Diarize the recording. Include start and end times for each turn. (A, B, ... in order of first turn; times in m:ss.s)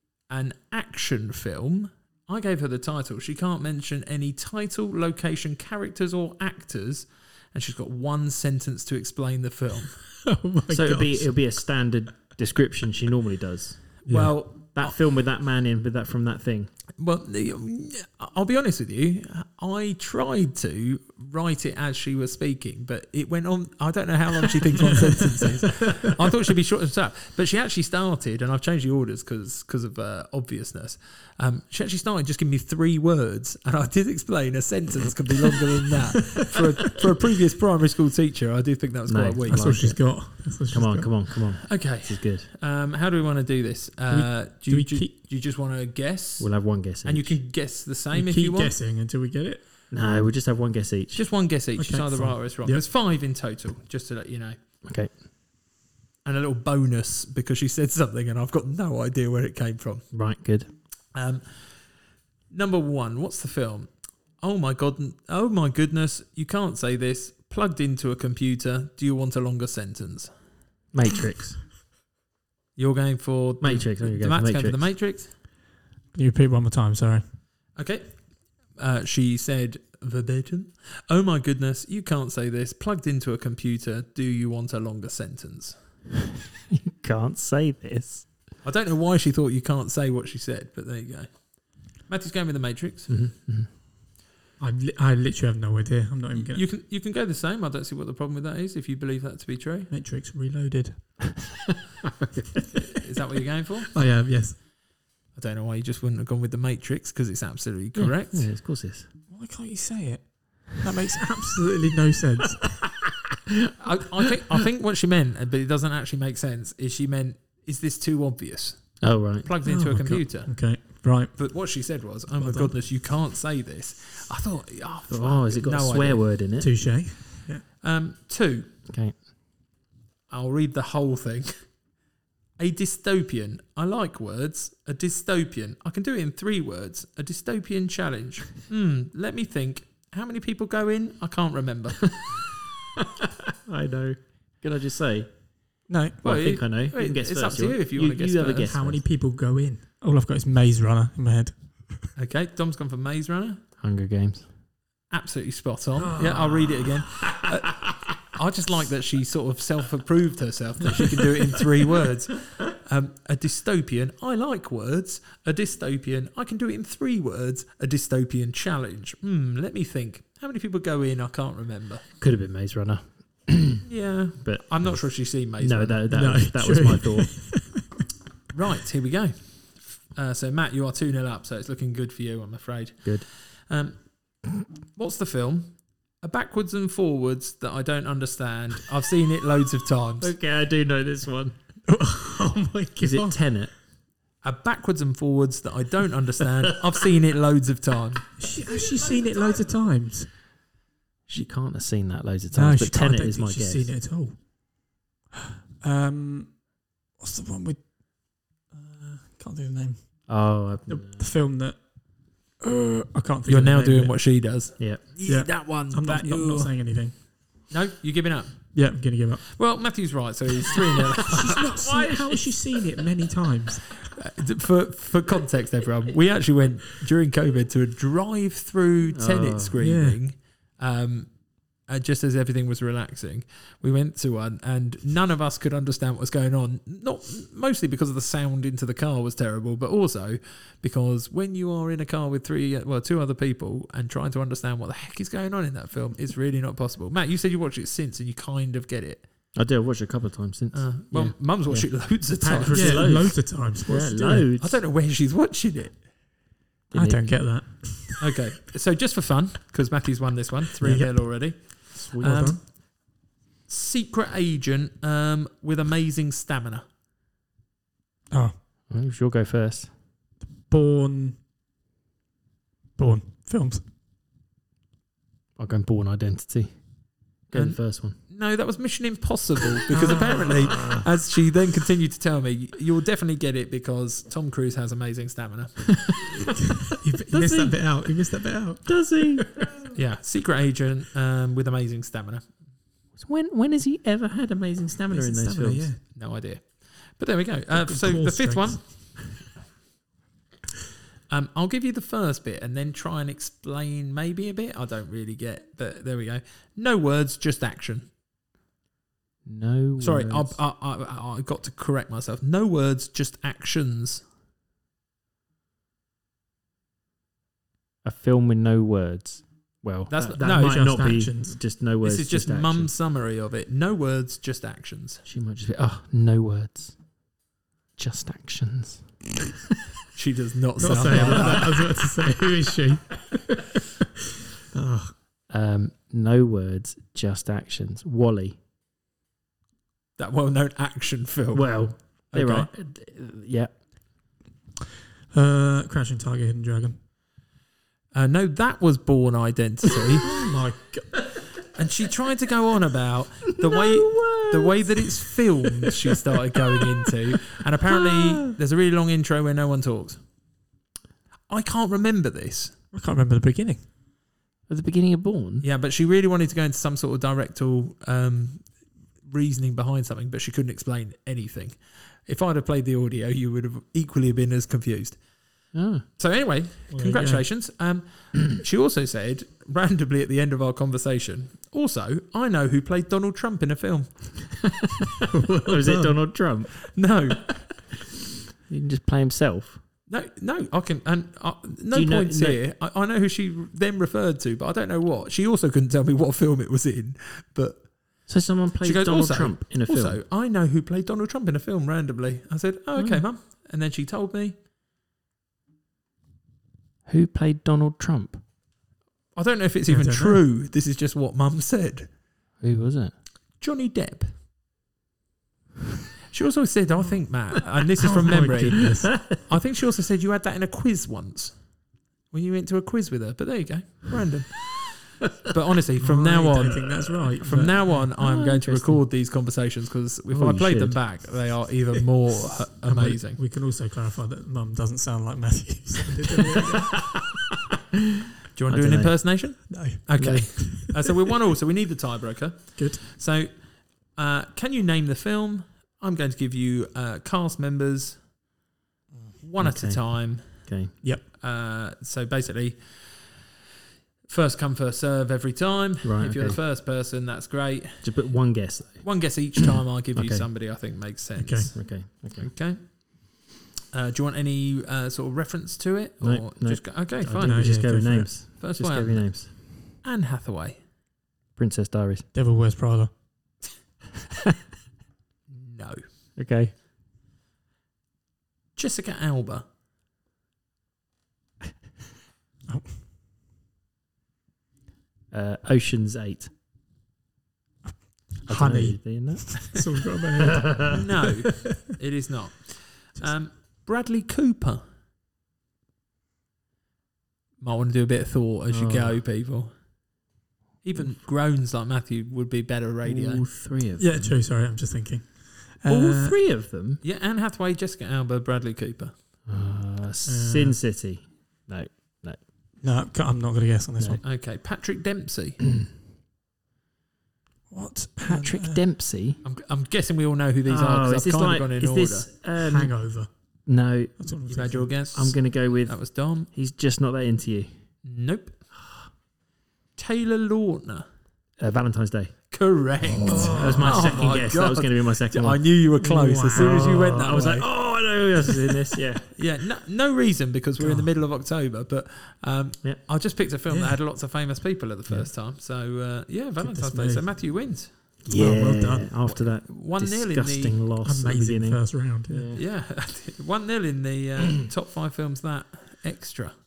0:00.3-0:10.0 A
0:10.2-0:11.4 B
0:10.7-0:13.8 C
0:14.0-0:14.9 A
0:14.1-0:14.3 B
0:14.7-0:16.7 C
0:17.0-0:39.9 A
0:39.0-0:42.5 C
0:39.5-0:41.1 B
0:41.6-0:46.5 A
0:44.1-0:45.1 B
0:46.4-0:47.4 C
0:47.0-0:48.7 A
0:48.1-0:49.6 B
0:49.9-0:51.2 C
0:51.1-0:54.6 A
0:51.8-0:52.8 B
0:54.8-0:55.1 C
0:56.2-1:00.0 A
1:00.1-1:00.7 C
1:01.1-1:01.7 A
1:02.5-1:03.9 A
1:04.4-1:10.3 A
1:10.9-1:11.6 C
1:12.8-1:15.3 A
1:13.6-1:14.8 C
1:16.1-1:17.2 B
1:17.8-1:18.1 A
1:18.8-1:25.8 A
1:26.7-1:28.3 C
1:28.6-1:31.3 A
1:32.1-1:33.1 A
1:33.1-1:33.7 C
1:34.6-1:36.6 B
1:36.4-1:39.9 A
1:39.9-1:41.4 B
1:42.9-1:43.9 A
1:43.9-1:44.6 B
1:45.3-1:48.5 A
1:47.9-1:49.0 C
1:49.3-1:52.8 B
1:53.5-1:54.4 C
1:53.8-2:00.8 A
1:59.0-1:59.5 C
1:59.6-2:01.4 B
2:01.3-2:06.2 A
2:02.4-2:02.8 B
2:05.1-2:06.7 C
2:06.6-2:07.6 B
2:07.8-2:08.7 A
2:08.9-2:09.1 C
2:10.3-2:11.5 A
2:12.6-2:22.4 A
2:23.1-2:25.3 C
2:25.9-2:26.2 B
2:26.2-2:28.7 A
2:26.2-2:29.0 C
2:28.6-2:32.1 B
2:32.2-2:33.6 A
2:33.8-2:34.5 C
2:35.1-2:52.0 A
2:36.0-2:37.9 C
2:52.2-2:53.8 C
2:53.8-2:56.0 A
2:54.4-2:57.4 C
2:56.1-2:57.9 B
2:58.5-3:04.0 A
3:05.0-3:10.3 A
3:10.2-3:11.6 C
3:11.9-3:13.4 B
3:13.0-3:13.7 C
3:14.4-3:18.2 A
3:18.4-3:20.3 B
3:18.7-3:19.4 C
3:21.3-3:23.9 C
3:22.5-3:24.4 B
3:25.8-3:26.6 B
3:27.2-3:27.8 B
3:28.7-3:30.0 B
3:30.3-3:31.2 C
3:30.9-3:31.8 B
3:32.6-3:34.2 B
3:33.4-3:36.7 A
3:35.3-3:37.1 B
3:37.7-3:38.7 A
3:38.7-3:39.6 B
3:39.5-3:41.7 A
3:41.2-3:44.1 B
3:41.7-3:42.8 C
3:44.0-3:51.3 A
3:49.1-3:49.8 C
3:49.8-3:50.2 B
3:51.8-4:09.2 A
4:09.6-4:14.8 C
4:10.7-4:13.1 A
4:12.7-4:14.5 B
4:14.6-4:16.0 A
4:16.9-4:17.2 C
4:16.9-4:18.3 B
4:18.2-4:22.7 A
4:20.8-4:21.1 B
4:21.9-4:22.5 C
4:22.2-4:22.6 B
4:23.7-4:26.8 A
4:28.3-4:28.6 B
4:28.9-4:29.9 C
4:30.6-4:31.4 B
4:33.0-4:33.8 B
4:35.6-4:36.7 C
4:37.5-4:38.2 C
4:37.5-4:46.4 A
4:39.9-4:41.0 B
4:40.1-4:40.4 C
4:46.8-4:49.7 B
4:47.3-4:48.2 C
4:48.8-4:49.6 C
4:49.9-4:52.4 A
4:53.1-4:55.9 C
4:55.1-4:56.0 B
4:56.1-4:58.8 A
4:57.7-4:58.9 B
5:01.3-5:08.1 A
5:09.4-5:10.6 C
5:10.0-5:14.2 A
5:18.0-5:22.9 C
5:20.1-5:20.8 A
5:20.4-5:21.6 B
5:22.0-5:25.2 A
5:25.2-5:27.0 C
5:28.0-5:29.0 C
5:30.1-5:31.7 A
5:30.8-5:34.0 B
5:31.0-5:31.8 C
5:34.7-5:35.1 B
5:35.5-5:38.6 C
5:40.2-5:42.7 A
5:41.5-5:43.7 C
5:45.3-5:47.0 B
5:48.1-5:50.4 A
5:50.2-5:51.3 B
5:51.7-6:00.2 A
5:53.6-5:55.4 C
5:57.8-5:58.5 C
6:01.5-6:02.7 A
6:02.9-6:03.8 B
6:04.7-6:05.6 C
6:05.6-6:08.7 A
6:09.2-6:15.2 A
6:15.7-6:16.0 C
6:16.2-6:24.5 A
6:16.9-6:17.4 B
6:24.6-6:26.9 C
6:25.3-6:26.1 B
6:26.9-6:27.6 A
6:28.7-6:29.8 C
6:30.1-6:37.9 A
6:31.9-6:32.6 C
6:38.3-6:40.2 C
6:38.8-6:44.6 A
6:43.0-6:43.2 C
6:47.0-6:48.4 C
6:49.4-6:52.1 A
6:49.9-6:50.4 B
6:52.6-6:53.1 C
6:53.6-6:54.3 A
6:56.3-7:01.6 A
6:58.0-6:59.4 B
6:58.8-6:59.2 C
7:02.3-7:13.4 A
7:06.0-7:08.1 B
7:08.2-7:09.0 C
7:10.3-7:11.4 C
7:12.5-7:17.3 B
7:18.6-7:28.2 A
7:18.7-7:20.8 C
7:19.7-7:20.9 B
7:22.8-7:23.0 B
7:29.4-7:30.7 A
7:29.6-7:30.9 C
7:31.3-7:33.4 A
7:34.3-7:38.1 A
7:36.0-7:36.6 C
7:38.0-7:39.6 C
7:39.0-7:42.9 A
7:40.1-7:40.5 C
7:41.4-7:41.7 B
7:41.7-7:42.5 C
7:43.9-7:47.8 A
7:46.2-7:49.5 C
7:47.4-7:48.3 B
7:48.6-7:49.4 A
7:50.0-7:50.8 A
7:51.6-7:52.2 C
7:52.3-7:53.1 B
7:55.5-7:56.0 A
7:56.4-7:56.7 C
7:58.8-7:59.6 A
8:02.7-8:03.0 B
8:05.3-8:06.5 C
8:07.8-8:11.6 B
8:08.5-8:09.8 C
8:10.5-8:11.0 C
8:10.8-8:14.8 A
8:17.6-8:19.7 A
8:18.7-8:19.2 C
8:20.8-8:23.4 A
8:23.0-8:24.3 C
8:24.0-8:26.4 B
8:25.8-8:27.0 C
8:27.0-8:29.1 A
8:29.4-8:32.4 C
8:30.2-8:30.8 B
8:32.8-8:34.2 B
8:34.2-8:35.6 A
8:37.7-8:38.8 B
8:38.2-8:39.4 C
8:39.4-8:42.3 A
8:40.7-8:42.9 C
8:42.6-8:43.3 B
8:43.6-8:44.2 C
8:44.2-8:44.9 B
8:44.5-8:46.5 A
8:45.1-8:47.7 C
8:48.0-8:48.6 A
8:50.0-8:51.1 A
8:51.6-8:52.3 C
8:52.5-8:57.7 A
8:53.0-8:55.7 C
8:53.2-8:54.3 B
8:56.0-8:57.5 B
8:56.5-8:59.3 C
8:59.3-9:07.9 A
9:00.8-9:01.1 B
9:03.7-9:04.0 B
9:06.6-9:07.3 B
9:08.2-9:12.6 C
9:08.3-9:09.1 B
9:09.2-9:10.8 A
9:11.0-9:12.5 B
9:12.5-9:16.5 A